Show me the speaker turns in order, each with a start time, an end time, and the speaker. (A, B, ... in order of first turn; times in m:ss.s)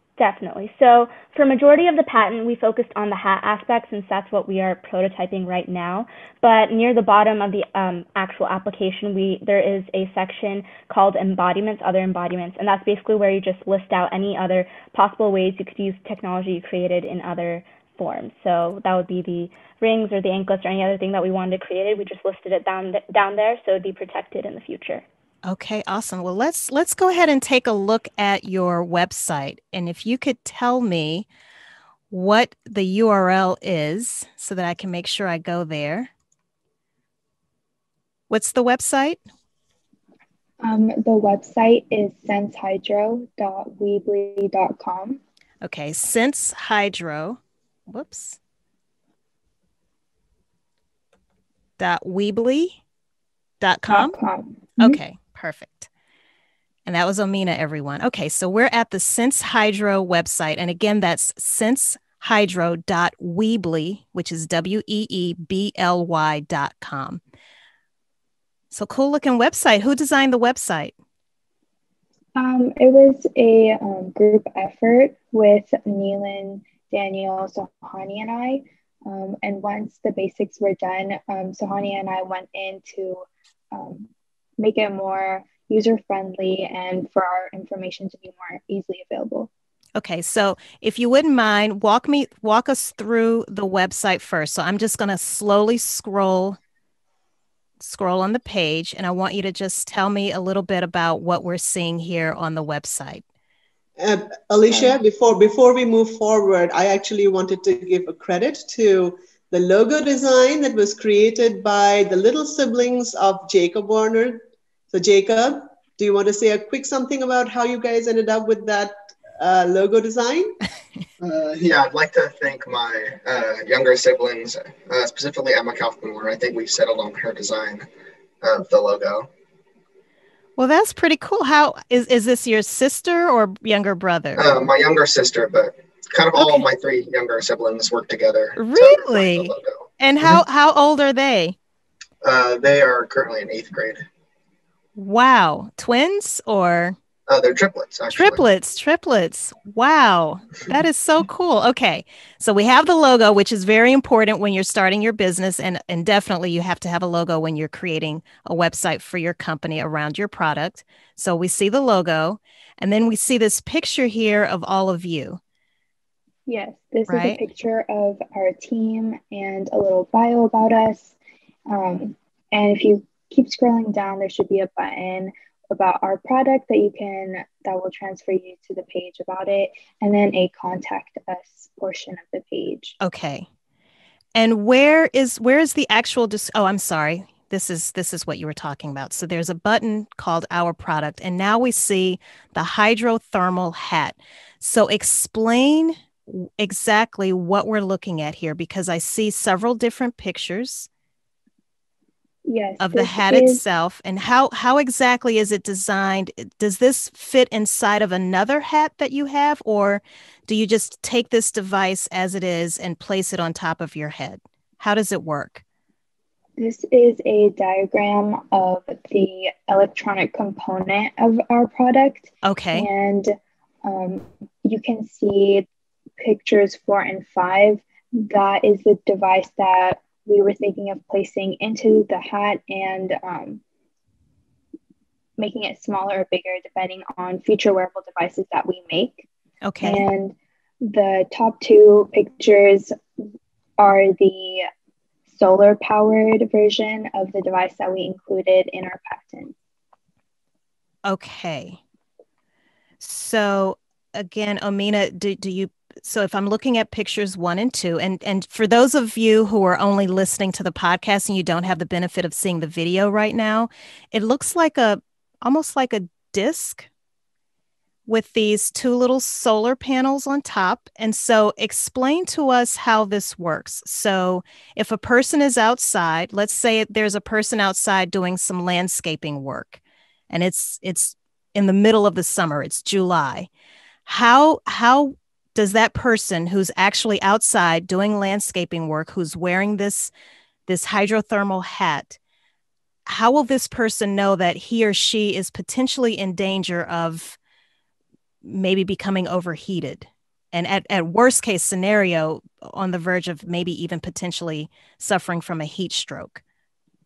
0:00.2-0:25.0 A
0:25.5-0:31.3 B
0:32.1-0:36.1 B
0:38.3-0:39.2 B
0:40.6-0:45.2 C
0:45.6-0:48.4 B
0:51.8-0:52.8 B
0:53.6-0:54.2 B
0:53.9-0:55.0 C
0:54.8-0:55.9 B
0:56.9-1:07.2 B
1:08.7-1:10.9 B
1:12.4-1:29.5 C
1:30.0-1:36.6 B
1:37.8-1:43.2 B
1:44.0-1:54.4 D
1:44.7-1:45.0 E
1:54.9-2:00.6 D
2:01.2-2:07.9 E
2:08.4-2:09.3 E
2:10.6-2:14.6 B
2:14.4-2:20.4 E
2:16.4-2:16.6 B
2:18.6-2:21.6 B
2:22.2-2:24.1 E
2:25.0-2:27.0 B
2:27.3-2:28.4 E
2:28.1-2:45.4 B
2:46.5-2:51.2 C
2:47.1-2:47.4 B
2:51.7-3:03.0 C
3:03.0-3:03.5 B
3:04.4-3:20.9 B
3:22.4-3:23.6 C
3:22.8-3:35.6 B
3:36.6-3:45.7 C
3:42.4-3:42.9 B
3:46.2-3:53.6 C
3:55.4-3:59.3 C
3:59.6-4:00.0 B
3:59.8-4:03.0 C
4:03.8-4:04.7 C
4:05.3-4:09.6 C
4:11.1-4:11.8 B
4:13.0-4:26.9 B
4:28.1-4:43.5 B
4:44.1-4:50.1 B
4:50.7-4:52.2 B
4:53.1-4:57.4 B
4:58.4-5:06.4 B